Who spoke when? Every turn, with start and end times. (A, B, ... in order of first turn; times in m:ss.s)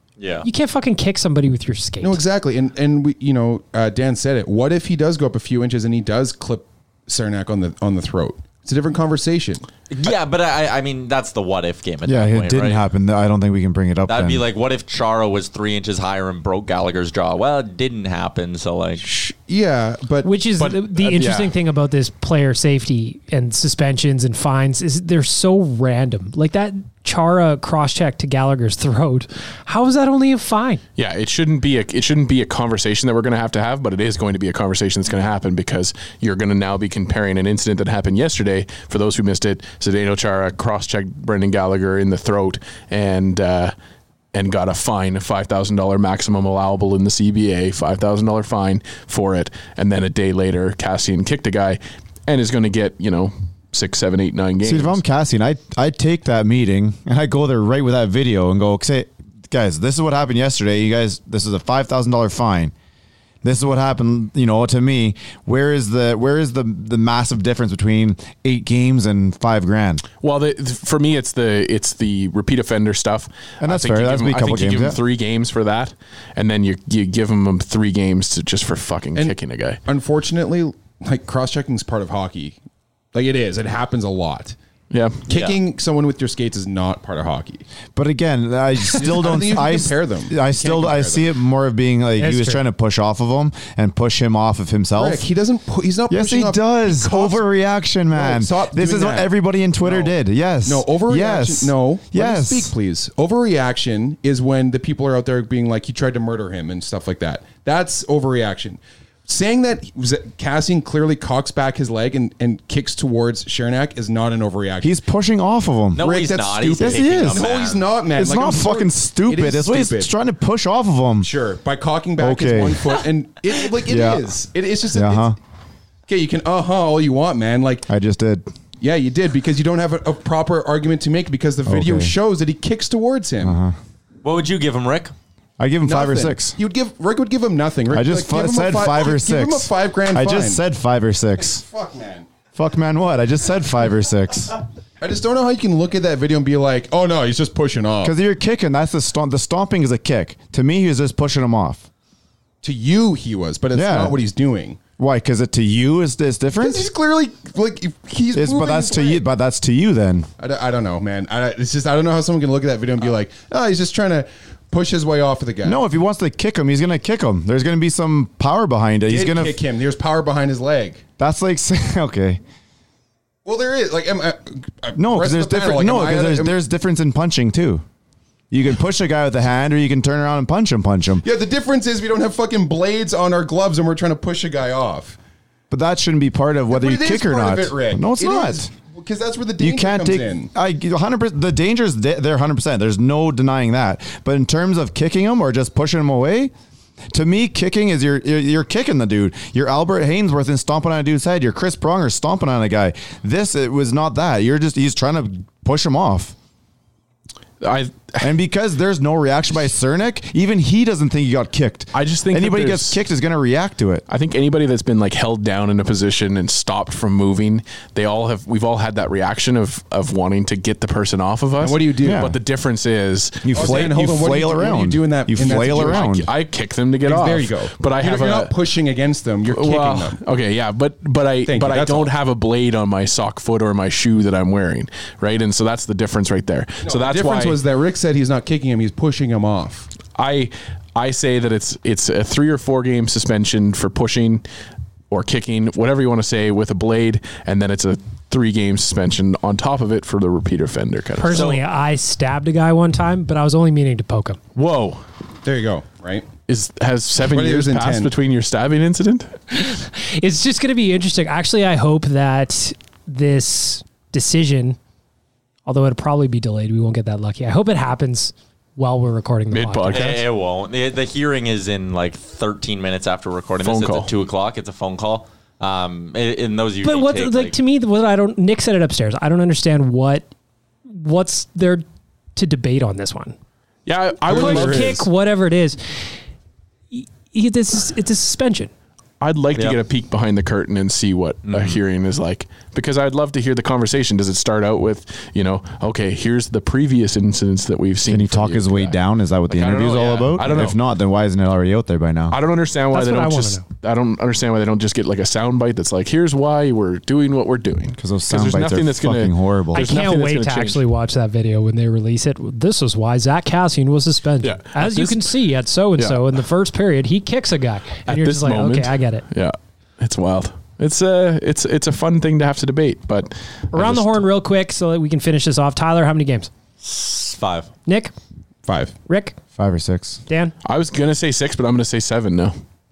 0:00.2-0:00.5 A
0:00.4-0:02.2 B
0:02.0-0:09.7 C
0:09.9-0:12.8 A
0:12.0-0:14.4 D
0:14.1-0:19.0 A
0:19.0-0:20.3 C
0:20.2-0:30.8 B
0:20.6-0:21.5 E
0:31.0-0:43.7 E
0:44.3-0:55.0 E
0:54.6-1:02.7 D
1:03.4-1:10.0 D
1:10.2-1:19.8 E
1:13.6-1:15.0 D
1:19.8-1:22.6 C
1:23.1-1:24.6 C
1:24.9-1:25.2 E
1:25.3-1:27.6 C
1:25.3-1:25.6 A
1:28.0-1:35.2 D
1:28.9-1:31.3 C
1:32.2-1:32.6 B
1:35.0-1:37.4 C
1:36.1-1:42.7 D
1:38.1-1:39.3 C
1:39.8-1:40.1 C
1:40.6-1:55.0 C
1:54.8-1:56.1 D
1:56.0-1:57.9 A
1:56.0-2:00.1 C
1:56.8-1:57.5 D
1:58.2-2:01.3 D
2:01.2-2:05.3 C
2:02.2-2:03.0 D
2:03.8-2:04.3 D
2:04.9-2:05.4 D
2:06.1-2:07.9 C
2:07.9-2:08.5 D
2:08.8-2:13.6 C
2:11.6-2:12.2 D
2:13.4-2:13.7 D
2:14.2-2:15.1 A
2:15.6-2:16.6 D
2:15.8-2:20.6 C
2:17.9-2:21.6 D
2:21.4-2:22.3 C
2:22.6-2:24.6 D
2:25.0-2:28.2 C
2:28.0-2:31.9 D
2:32.6-2:34.8 C
2:33.7-2:34.2 D
2:35.0-2:36.8 D
2:36.6-2:39.2 C
2:38.3-2:40.3 D
2:40.4-2:45.8 C
2:45.6-2:49.6 D
2:49.1-2:51.0 C
2:51.2-2:52.4 D
2:53.4-2:56.6 C
2:55.0-2:57.8 D
2:58.5-3:01.2 D
3:01.2-3:05.2 C
3:05.7-3:08.7 D
3:06.7-3:10.5 C
3:09.6-3:16.5 D
3:17.1-3:26.3 D
3:27.6-3:28.3 E
3:28.2-3:34.0 D
3:31.9-3:33.0 E
3:34.1-3:43.9 E
3:41.6-3:42.3 C
3:42.0-3:42.4 D
3:43.4-3:46.3 D
3:43.5-3:46.1 C
3:45.4-3:48.6 E
3:47.0-3:50.2 C
3:49.5-3:57.6 E
3:51.4-3:52.1 C
3:56.8-3:59.9 C
4:00.2-4:04.4 E
4:05.1-4:11.5 E
4:11.2-4:14.4 B
4:11.3-4:11.6 A
4:14.6-4:15.0 E
4:15.4-4:16.3 C
4:16.5-4:19.4 E
4:17.3-4:18.1 C
4:19.5-4:24.8 B
4:25.7-4:30.2 B
4:29.5-4:30.2 E
4:29.9-4:37.6 A
4:33.6-4:34.1 E
4:36.8-4:40.3 B
4:40.9-4:41.8 B
4:42.3-4:43.3 B
4:43.8-4:45.1 E
4:44.3-4:45.0 C
4:44.3-4:46.0 B
4:46.9-4:48.7 B
4:49.2-4:59.0 E
4:51.4-4:51.8 A
4:58.1-5:02.4 D
4:59.5-5:00.8 E
5:02.3-5:10.8 E
5:02.9-5:03.6 B
5:08.0-5:09.8 D
5:09.7-5:19.2 B
5:14.4-5:15.3 E
5:16.0-5:16.4 E
5:18.1-5:24.2 E
5:23.7-5:26.5 B
5:26.8-5:27.7 A
5:27.8-5:28.1 B
5:28.7-5:29.0 C
5:29.1-5:29.3 B
5:29.6-5:30.2 D
5:30.3-5:30.5 B
5:30.6-5:32.6 E